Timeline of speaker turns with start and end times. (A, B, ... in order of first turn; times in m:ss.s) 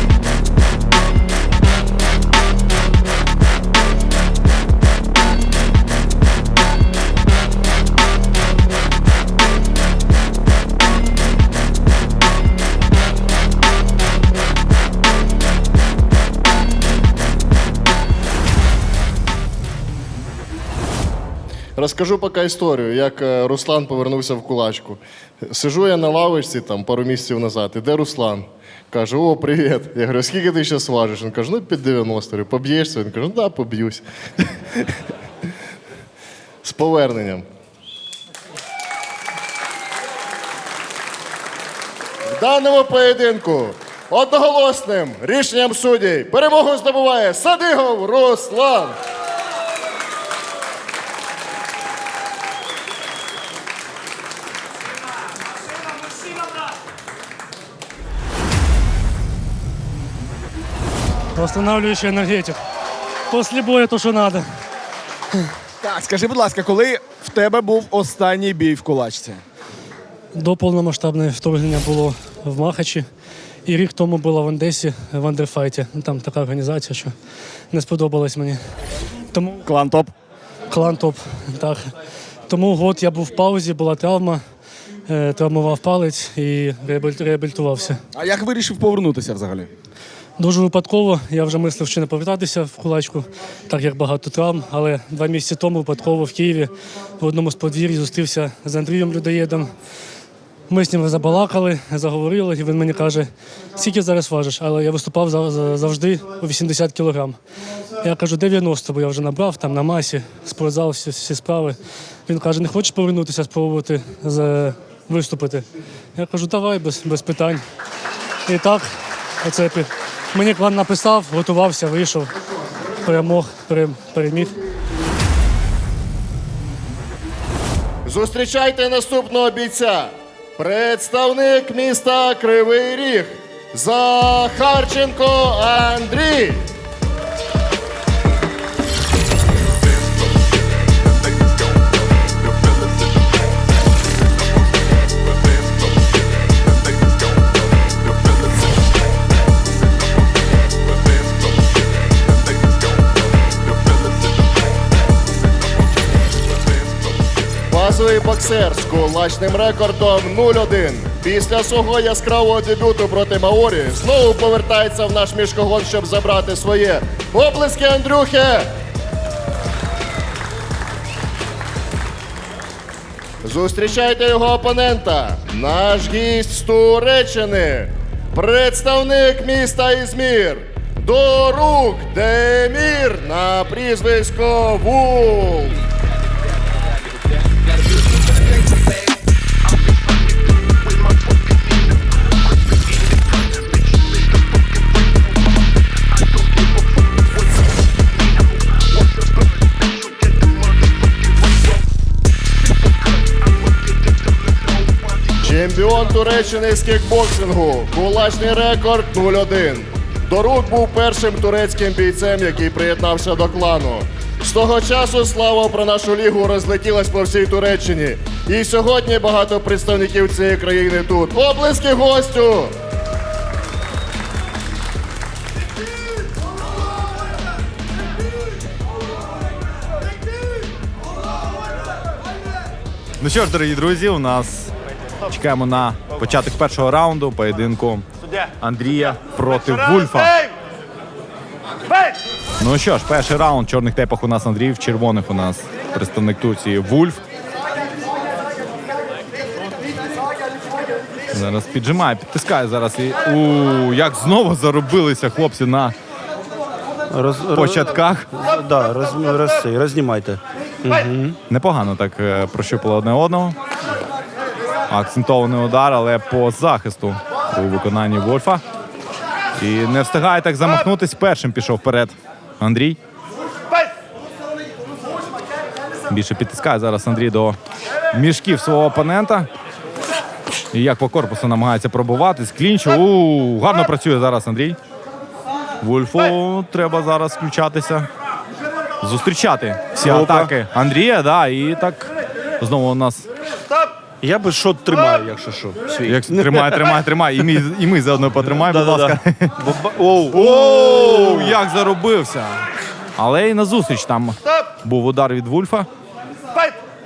0:21.8-0:34.0 A
0:36.6-0:37.5 A
0:42.3-0:49.0 A
1:01.4-1:02.6 B
1:03.3-1:04.5 B
1:05.8-1:09.4 C
1:10.4-1:13.1 B
1:13.7-1:17.1 B
1:17.7-1:18.6 B
1:19.3-1:19.6 B
1:19.7-1:20.1 C
1:20.7-1:21.9 B
1:22.5-1:24.4 B
1:25.1-1:28.0 B
1:28.1-1:29.7 C
1:30.4-1:39.7 B
1:40.7-1:47.4 B
1:48.0-1:51.8 B
1:52.3-1:57.6 B
1:58.5-1:58.9 B
1:59.4-2:02.4 B
2:03.0-2:04.6 B
2:08.0-2:16.7 A
2:37.7-2:48.7 A
2:53.4-3:05.8 A
3:25.4-3:42.8 A
3:53.2-3:54.7 D
3:55.3-3:58.1 D
3:58.6-4:00.4 D
4:02.6-4:07.2 D
4:11.3-4:16.0 D
4:17.1-4:21.4 E
4:17.5-4:18.3 D
4:21.5-4:23.6 D
4:24.9-4:28.6 D
4:29.6-4:33.0 D
4:36.1-4:37.6 D
4:38.1-4:39.5 D
4:40.7-4:44.8 D
4:45.8-4:48.1 D
4:49.0-4:53.3 D
4:50.0-4:50.5 E
4:54.2-4:57.0 E
4:56.1-4:59.5 D
4:58.4-5:01.6 E
5:00.3-5:02.6 D
5:03.2-5:05.9 D